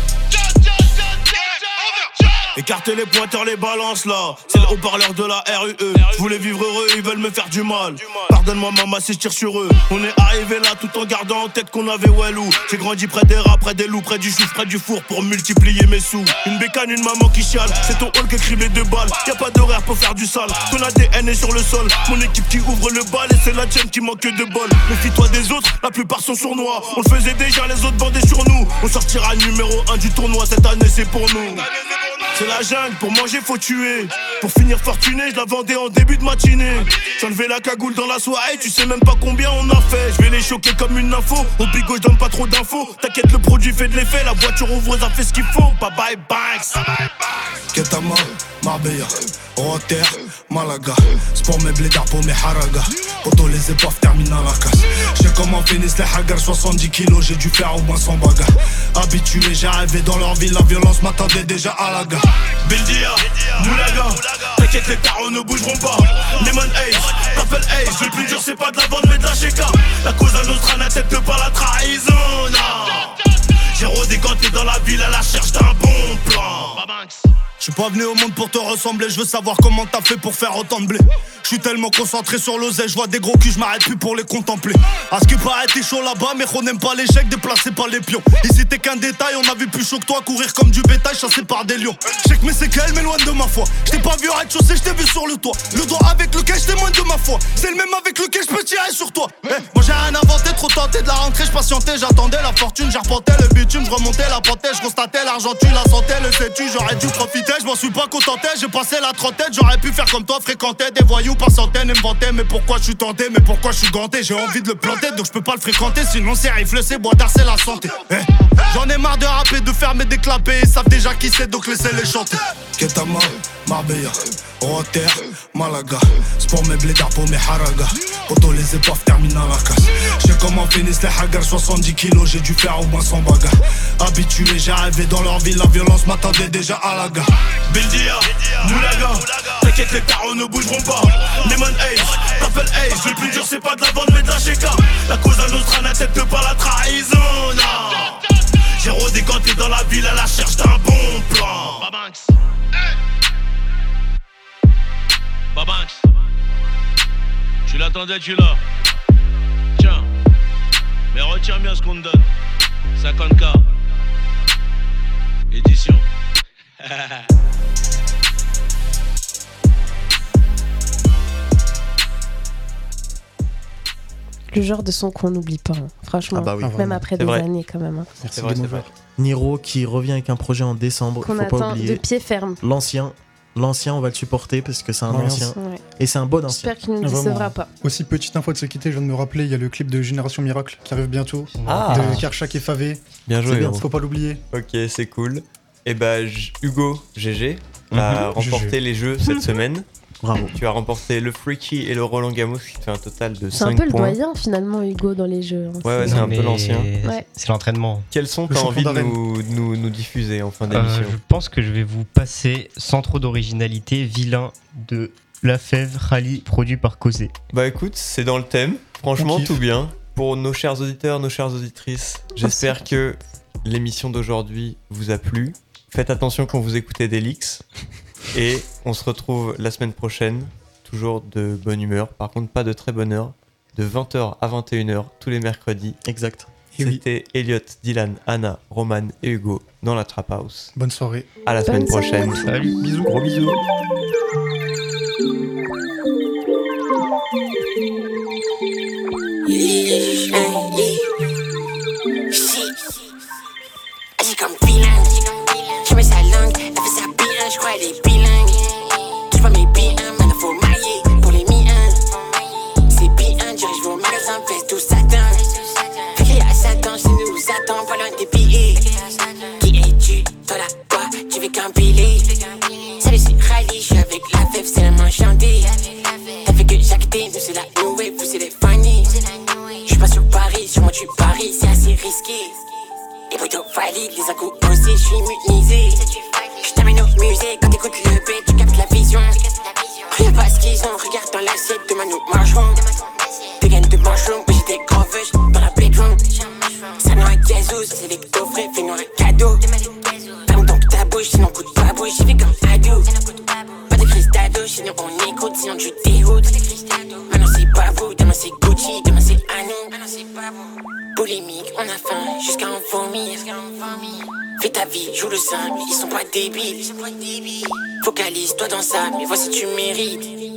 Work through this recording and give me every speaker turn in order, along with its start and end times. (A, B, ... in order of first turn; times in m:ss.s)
0:00.6-0:31.7 A
0:32.3-0:47.1 A
0:47.7-1:02.2 B
1:02.6-1:17.2 A
1:17.6-2:17.3 B
2:17.6-2:32.3 A
2:35.5-2:36.0 A
2:37.7-2:38.6 A
2:39.8-2:40.1 A
2:41.1-2:42.2 A
2:43.0-2:43.6 A
2:45.5-2:46.0 A
2:54.5-2:58.1 C
2:56.3-2:57.0 D
2:56.6-2:57.0 E
2:57.2-2:57.4 F
2:58.2-2:58.9 E
2:58.2-2:58.9 F
2:59.2-3:02.0 D
3:01.2-3:02.6 C
3:02.6-3:06.7 D
3:05.1-3:05.5 E
3:05.5-3:05.8 C
3:06.5-3:07.7 C
3:07.0-3:13.0 E
3:11.5-3:12.2 G
3:11.6-3:12.3 F
3:13.3-3:13.8 F
3:13.4-3:13.8 D
3:13.8-3:14.4 E
3:14.5-3:19.8 F
3:17.9-3:18.3 G
3:18.4-3:18.8 E
3:20.2-3:20.5 D
3:20.5-3:24.2 F
3:23.5-3:26.3 C
3:25.8-3:26.9 F
3:26.0-3:28.1 G
3:28.1-3:31.2 F
3:28.5-3:29.2 E
3:30.7-3:37.3 G
3:37.5-3:47.6 F
3:39.2-3:39.6 E
3:42.4-3:42.8 C
3:48.3-3:56.0 F
3:56.0-3:56.5 D
3:56.7-3:57.0 E
3:56.8-4:00.7 F
4:00.8-4:01.3 E
4:01.4-4:02.5 F
4:01.7-4:02.4 C
4:02.3-4:02.8 G
4:02.8-4:03.1 E
4:03.0-4:03.6 F
4:09.4-4:11.1 H
4:12.3-4:13.1 H
4:14.2-4:42.6 H
4:43.3-5:20.4 H